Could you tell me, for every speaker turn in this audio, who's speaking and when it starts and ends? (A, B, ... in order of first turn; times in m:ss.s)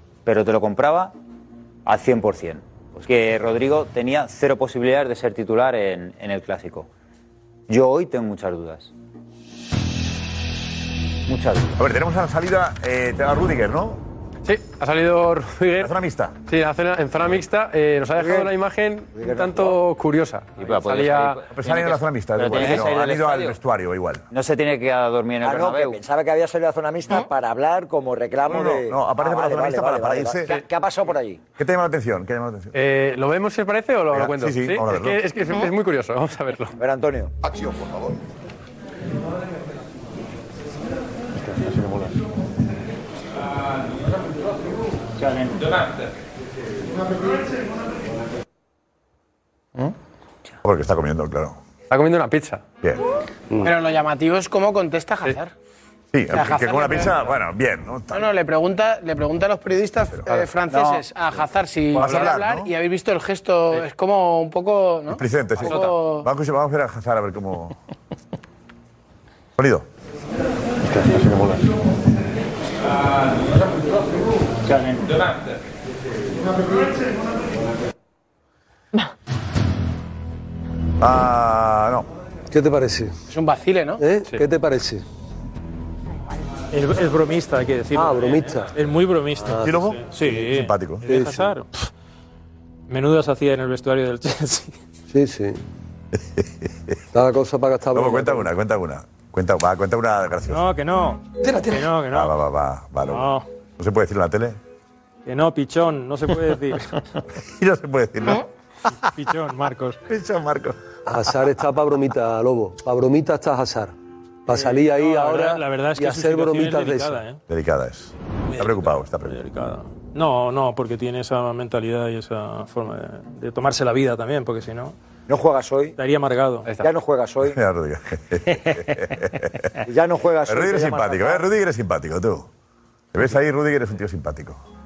0:00.3-0:01.1 A
0:01.9-0:06.9 A
0:07.7-0:08.9 A
0:11.3-0:11.8 A
0:11.8-0:14.0 B
0:14.4-0:21.4 C
0:15.8-0:16.4 B
0:18.2-0:18.5 D
0:19.2-0:19.7 D
0:20.6-0:23.6 A
0:21.5-0:24.2 B
0:24.3-0:26.0 A
0:25.4-0:31.4 D
0:28.5-0:30.5 B
0:31.6-0:32.8 B
0:32.7-0:36.7 C
0:34.1-0:35.2 B
0:36.8-0:37.3 D
0:50.6-0:51.6 B
0:51.9-0:52.6 C
0:53.7-0:55.5 E
0:56.1-0:58.3 B
0:56.4-0:57.2 E
0:58.1-1:06.3 E
1:00.1-1:00.5 B
1:01.9-1:02.7 B
1:05.1-1:07.8 B
1:09.6-1:09.9 B
1:21.0-1:22.1 B
1:22.5-1:23.1 F
1:23.3-1:24.0 E
1:24.0-1:25.0 F
1:26.7-1:31.7 G
1:27.9-1:28.7 F
1:29.4-1:29.9 F
1:29.6-1:31.1 B
1:31.1-1:31.6 F
1:32.9-1:34.8 G
1:35.1-1:35.6 F
1:36.4-1:37.0 B
1:37.1-1:38.5 F
1:37.9-1:40.7 B
1:40.5-1:42.3 G
1:42.1-1:44.6 B
1:43.1-1:43.4 G
1:45.3-1:47.0 G
1:47.5-1:48.5 B
1:49.1-1:50.0 G
1:50.1-1:50.8 B
1:51.1-1:54.0 F
1:54.5-1:57.2 F
1:54.5-1:57.4 G
1:57.5-1:59.4 B
1:58.5-2:04.9 G
2:05.3-2:06.0 D
2:06.0-2:06.7 G
2:06.8-2:07.6 D
2:07.5-2:09.7 B
2:09.8-2:11.4 D
2:10.5-2:12.5 B
2:13.1-2:14.6 B